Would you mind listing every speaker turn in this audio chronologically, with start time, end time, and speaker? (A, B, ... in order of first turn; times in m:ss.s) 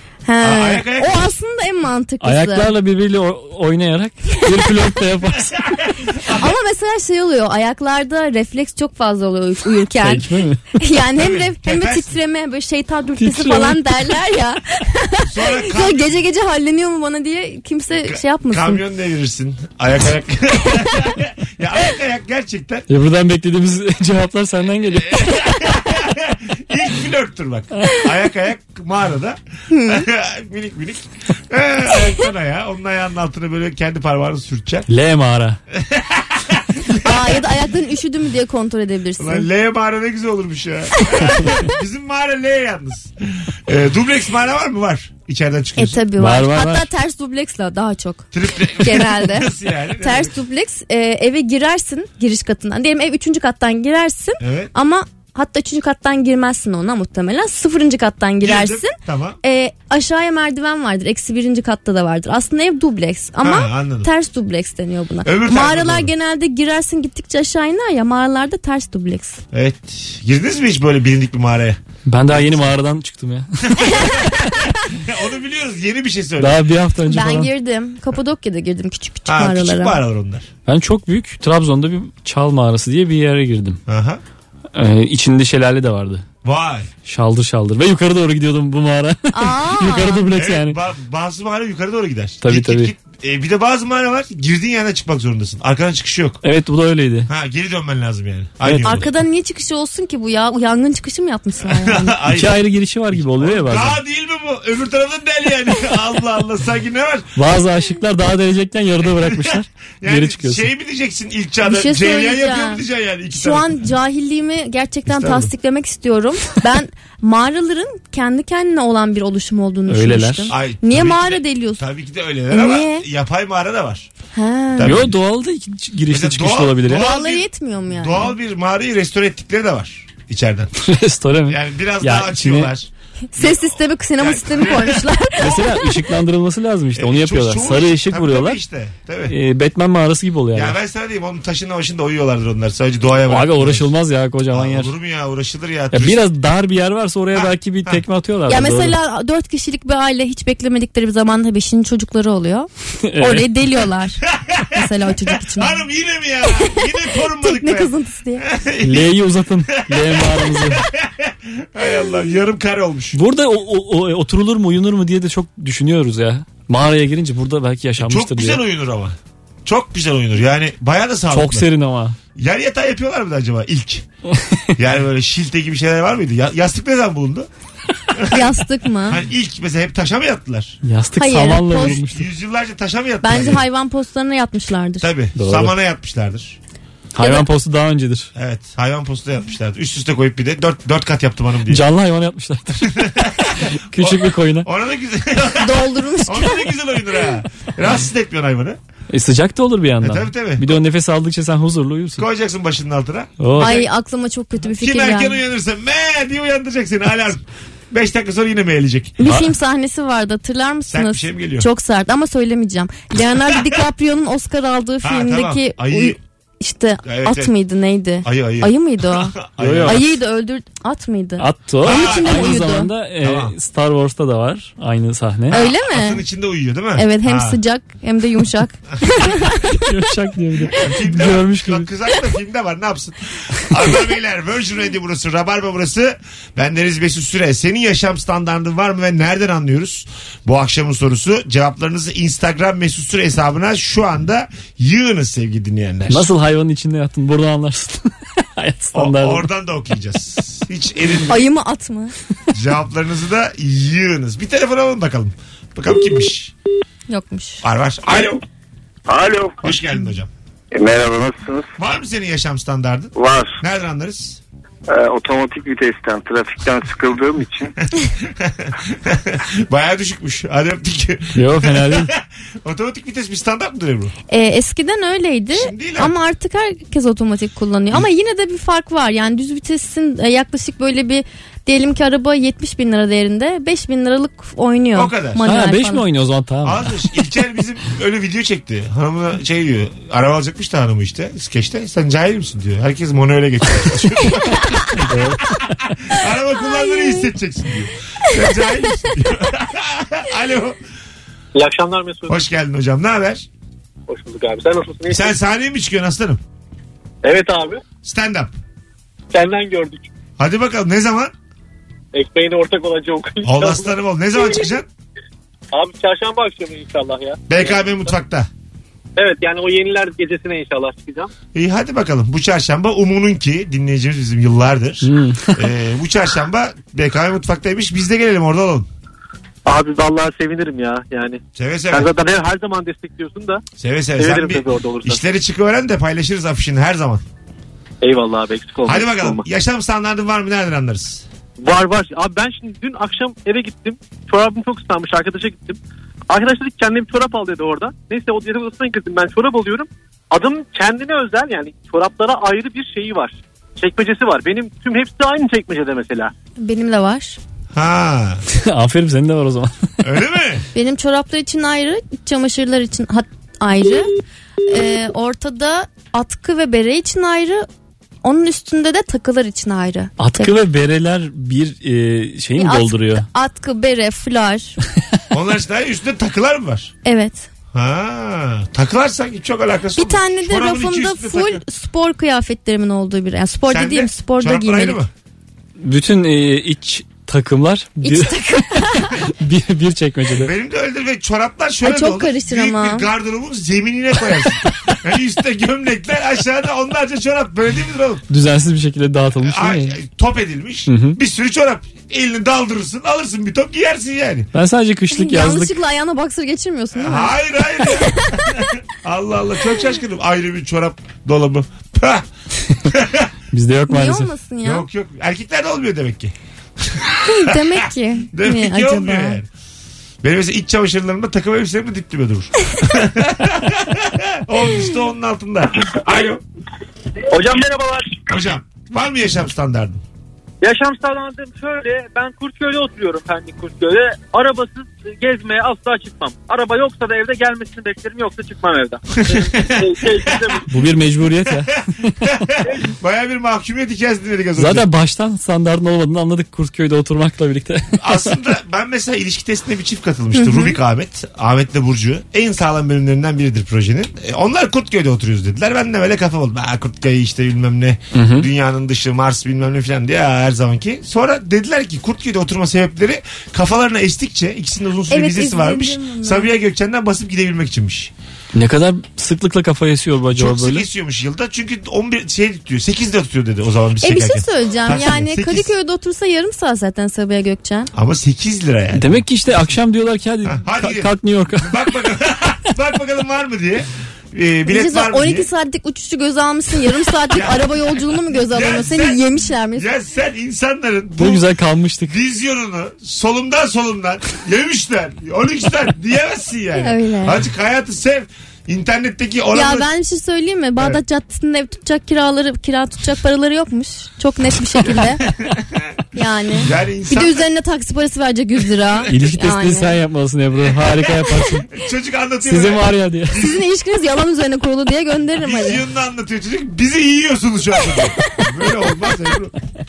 0:00.2-0:02.7 A
0:00.4-0:01.3 B
0:02.2-0:05.6 C
0:05.8-0:06.5 B
0:06.3-0:18.8 A
0:10.0-0:10.6 C
0:11.2-0:12.1 B
0:13.2-0:13.9 C
0:15.2-0:16.2 B
0:17.9-0:22.9 B
0:22.9-0:25.4 C
0:25.0-0:34.9 B
0:29.7-0:30.1 A
0:34.9-0:35.6 C
0:35.7-0:37.4 B
0:37.0-0:39.5 A
0:39.2-0:46.0 B
0:45.8-1:09.4 A
0:46.2-0:46.9 C
0:48.3-0:50.4 B
0:54.4-0:54.7 B
0:58.4-0:59.4 B
1:03.4-1:04.1 B
1:05.2-1:06.1 B
1:09.5-1:12.7 B
1:12.0-1:14.0 C
1:13.8-1:16.6 B
1:13.9-1:14.7 A
1:16.4-1:17.5 C
1:17.1-1:20.0 A
1:19.3-1:20.5 B
1:20.6-1:23.8 C
1:23.9-1:24.2 B
1:24.7-1:26.2 C
1:26.4-1:26.9 B
1:27.0-1:30.8 C
1:29.3-1:30.2 A
1:30.3-1:36.4 B
1:32.4-1:32.9 C
1:36.4-1:37.3 C
1:37.3-1:39.1 B
1:38.6-1:39.1 C
1:38.8-1:42.2 A
1:41.6-1:47.3 B
1:42.3-1:44.0 C
1:47.4-1:50.7 C
1:49.2-1:53.7 B
1:51.6-2:01.8 A
1:55.1-1:55.5 B
1:59.9-2:00.5 C
2:00.5-2:04.1 B
2:02.5-2:03.0 A
2:04.3-2:04.9 A
2:04.7-2:05.1 B
2:04.8-2:07.0 C
2:06.1-2:10.7 B
2:06.9-2:08.3 A
2:10.8-2:12.7 C
2:11.5-2:15.1 B
2:13.3-2:16.0 A
2:15.4-2:18.6 C
2:16.9-2:19.4 B
2:19.3-2:20.8 C
2:20.5-2:23.9 B
2:23.3-2:24.9 C
2:24.5-2:26.2 B
2:25.9-2:28.9 C
2:27.3-2:28.0 B
2:28.5-2:35.8 A
2:33.1-2:33.5 C
2:34.3-2:34.8 B
2:35.5-2:39.1 B
2:36.6-2:38.4 A
2:38.8-2:40.8 C
2:39.8-2:43.2 B
2:43.1-2:48.6 C
2:48.0-2:51.6 B
2:51.3-2:52.2 C
2:52.3-2:54.0 B
2:54.8-2:57.5 B
2:58.1-2:58.4 B
2:58.3-2:59.2 A
2:59.0-3:00.8 B
3:00.8-3:02.2 C
3:01.2-3:02.0 A
3:01.8-3:03.6 B
3:03.2-3:05.1 A
3:05.0-3:06.6 B
3:05.4-3:05.7 C
3:07.1-3:08.3 C
3:07.2-3:07.4 A
3:08.3-3:11.8 B
3:11.7-3:14.7 C
3:12.9-3:18.8 B
3:15.6-3:17.4 A
3:19.1-3:22.2 C
3:20.0-3:20.7 B
3:22.2-3:23.9 B
3:23.4-3:23.8 C
3:23.6-3:25.4 A
3:24.7-3:29.1 B
3:29.2-3:42.9 A
3:29.2-3:29.5 C
3:30.9-3:31.7 B
3:35.0-3:36.2 B
3:37.0-3:37.5 B
3:38.2-3:40.0 B
3:39.6-3:40.0 C
3:41.4-3:45.5 C
3:41.8-3:42.7 B
3:43.2-3:43.5 B
3:45.5-3:47.6 B
3:45.5-3:46.2 A
3:47.0-3:49.7 A
3:49.7-3:51.9 C
3:50.7-4:06.3 B
4:06.1-4:09.4 C
4:08.9-4:11.4 B
4:11.3-4:12.1 A
4:12.5-4:16.5 B
4:17.1-4:17.6 A
4:17.6-4:18.4 B
4:19.1-4:19.6 D
4:19.6-4:20.3 B
4:20.7-4:21.7 D
4:21.8-4:24.4 B
4:23.1-4:23.6 D
4:24.9-4:27.7 D
4:28.1-4:34.1 B
4:31.3-4:32.1 C
4:34.3-4:46.0 A
4:35.5-4:36.1 B
4:44.9-4:45.4 B
4:45.4-4:47.0 C
4:46.6-4:55.0 B
4:55.0-4:55.7 C
4:56.1-5:00.8 B
4:56.5-4:57.3 A
5:01.5-5:02.4 E
5:02.3-5:03.5 B
5:04.1-5:05.3 E
5:05.1-5:06.4 B
5:07.2-5:07.8 E
5:08.0-5:08.5 B
5:09.3-5:10.1 E
5:10.4-5:11.3 B
5:12.1-5:14.7 E
5:13.4-5:14.9 B
5:15.7-5:18.1 E
5:17.5-5:18.5 B
5:19.2-5:21.3 E
5:21.5-5:28.9 B
5:25.0-5:25.6 C
5:29.6-5:31.4 E
5:31.5-5:32.1 B
5:31.9-5:33.6 E
5:33.8-5:37.2 B
5:34.2-5:35.2 E
5:38.0-5:39.4 E
5:38.8-5:41.2 B
5:41.6-5:45.8 E
5:46.3-5:56.3 E
5:56.6-5:57.4 A
5:57.7-5:58.4 B
5:58.6-5:59.7 C
6:00.0-6:00.6 B
6:00.7-6:04.1 A
6:04.7-6:07.7 A
6:08.2-6:10.6 A
6:10.2-6:13.2 C
6:12.6-6:14.8 A
6:15.3-6:16.9 B
6:17.0-6:17.5 A
6:17.7-6:21.6 B
6:20.0-6:25.0 A
6:23.7-6:25.1 B
6:25.8-6:28.4 C
6:28.0-6:29.3 A
6:29.2-6:30.5 C
6:30.3-6:38.2 B
6:31.8-6:33.1 A
6:38.3-6:40.0 C
6:39.4-6:44.5 B
6:40.9-6:41.2 C
6:44.5-6:45.7 C
6:45.1-6:48.6 A
6:46.9-6:52.3 B
6:52.9-6:53.3 B
6:53.5-6:54.3 C
6:53.9-6:54.8 A
6:54.6-6:59.5 B
6:57.2-6:59.4 A
7:00.2-7:06.4 B
7:07.3-7:08.3 E
7:08.3-7:10.0 B
7:10.6-7:20.7 E
7:19.2-7:20.6 B
7:20.7-7:22.1 C
7:22.2-7:24.8 B
7:22.6-7:22.9 E
7:24.6-7:28.3 C
7:28.0-7:48.1 B
7:30.3-7:30.7 A
7:38.1-7:38.4 C
7:45.1-7:46.5 A
7:48.5-7:50.8 C
7:50.3-7:55.7 B
7:54.0-7:57.9 A
7:57.9-7:59.2 B
7:58.9-8:01.8 C
8:00.4-8:01.1 B
8:01.6-8:05.5 B
8:04.7-8:09.9 A
8:07.3-8:07.7 B
8:08.3-8:09.2 B
8:09.8-8:11.4 B
8:11.2-8:12.1 C
8:12.1-8:19.9 B
8:16.8-8:17.4 A
8:19.5-8:25.2 A
8:25.3-8:25.9 B
8:26.1-8:29.9 A
8:26.6-8:27.4 B
8:29.1-8:31.7 C
8:31.7-8:33.6 B
8:32.4-8:33.4 C
8:33.3-8:35.8 A
8:35.3-8:39.6 B
8:38.2-8:39.1 A